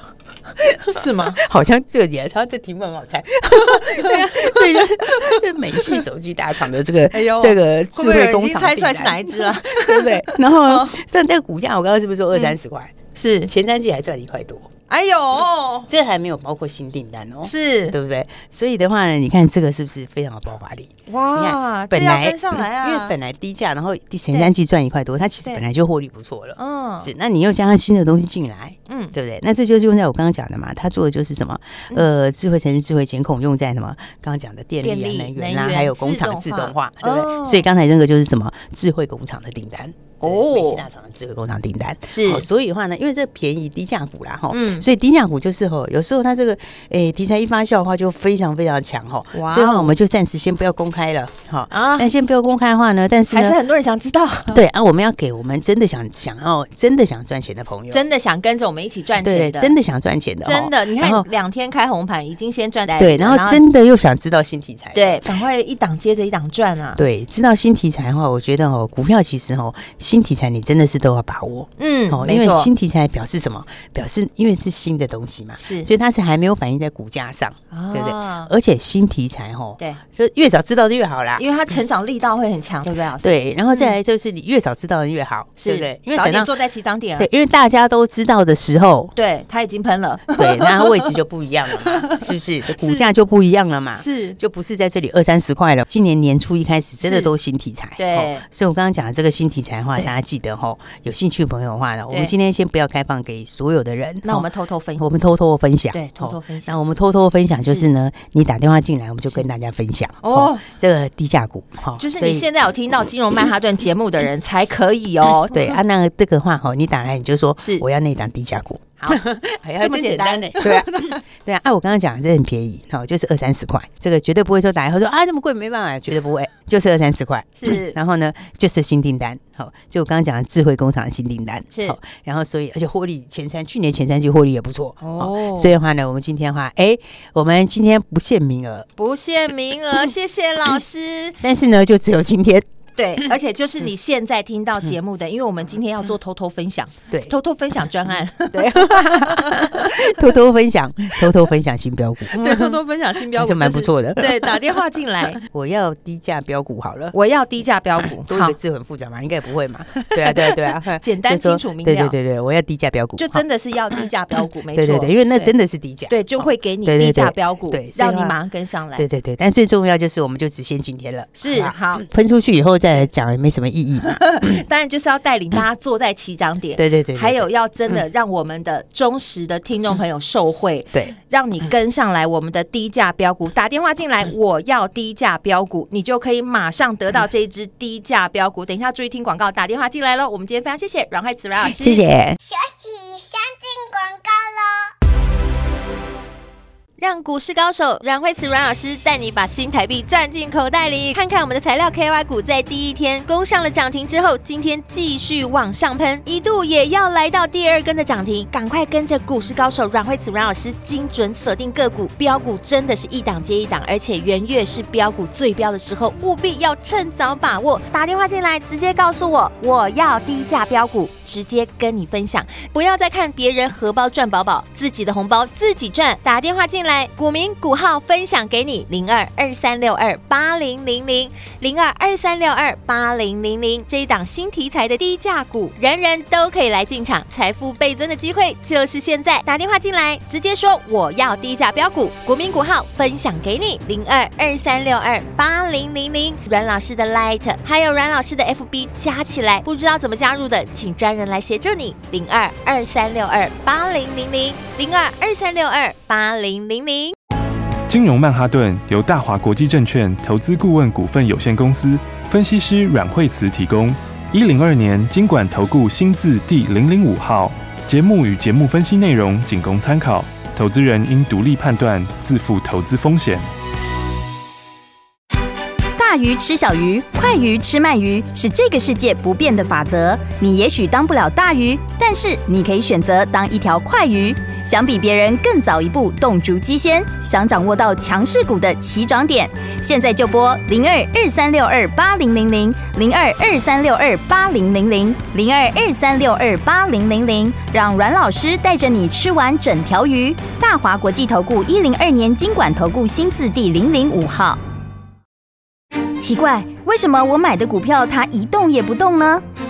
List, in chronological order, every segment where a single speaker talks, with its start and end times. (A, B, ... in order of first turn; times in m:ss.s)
0:00.6-0:12.9 A
0:00.9-0:01.4 B
0:03.5-0:06.0 B
0:07.1-0:10.9 B
0:13.2-0:13.5 B
0:13.5-0:14.7 A
0:14.9-0:15.9 B
0:15.9-0:53.6 A
0:17.4-0:18.0 B
0:21.1-0:23.2 B
0:26.6-0:27.1 B
0:28.9-0:29.2 B
0:34.8-0:37.6 B
0:40.2-0:40.9 B
0:42.1-0:42.5 B
0:44.5-0:44.9 B
0:49.3-0:50.0 B
0:51.7-0:52.1 B
0:53.3-0:54.6 B
0:54.5-0:58.0 A
0:57.9-0:59.7 B
0:59.2-1:01.3 A
1:00.4-1:03.6 B
1:03.0-1:05.2 A
1:04.9-1:07.0 B
1:07.0-1:21.4 A
1:11.8-1:12.7 B
1:15.6-1:15.9 B
1:17.7-1:18.5 B
1:21.4-1:24.0 B
1:23.2-1:26.6 A
1:25.6-1:27.3 B
1:27.2-1:29.1 A
1:29.2-1:31.2 B
1:30.4-1:44.5 A
1:31.7-1:33.0 B
1:34.0-1:34.4 B
1:37.0-1:37.3 B
1:38.0-1:38.4 B
1:44.2-1:45.1 B
1:45.0-1:52.5 A
1:45.9-1:46.7 B
1:50.2-1:50.7 B
1:52.0-1:55.7 B
1:55.5-2:18.9 A
1:57.6-1:57.9 B
1:59.8-2:01.2 B
2:07.6-2:08.0 B
2:15.0-2:15.7 B
2:19.0-2:21.4 B
2:21.4-2:23.4 A
2:23.0-2:30.3 B
2:28.5-2:34.6 A
2:32.3-2:35.4 B
2:35.3-2:37.2 A
2:37.1-2:38.6 B
2:38.3-2:43.4 A
2:40.0-2:42.2 B
2:43.2-2:45.5 B
2:44.7-2:48.4 A
2:46.1-2:49.1 B
2:49.0-2:54.6 A
2:51.4-2:52.1 B
2:54.0-3:12.0 B
2:56.8-2:57.5 A
3:11.6-3:12.4 A
3:12.4-3:14.9 C
3:17.0-4:17.2 B
4:17.9-4:33.5 D
4:36.0-5:04.6 E
5:06.2-5:09.4 E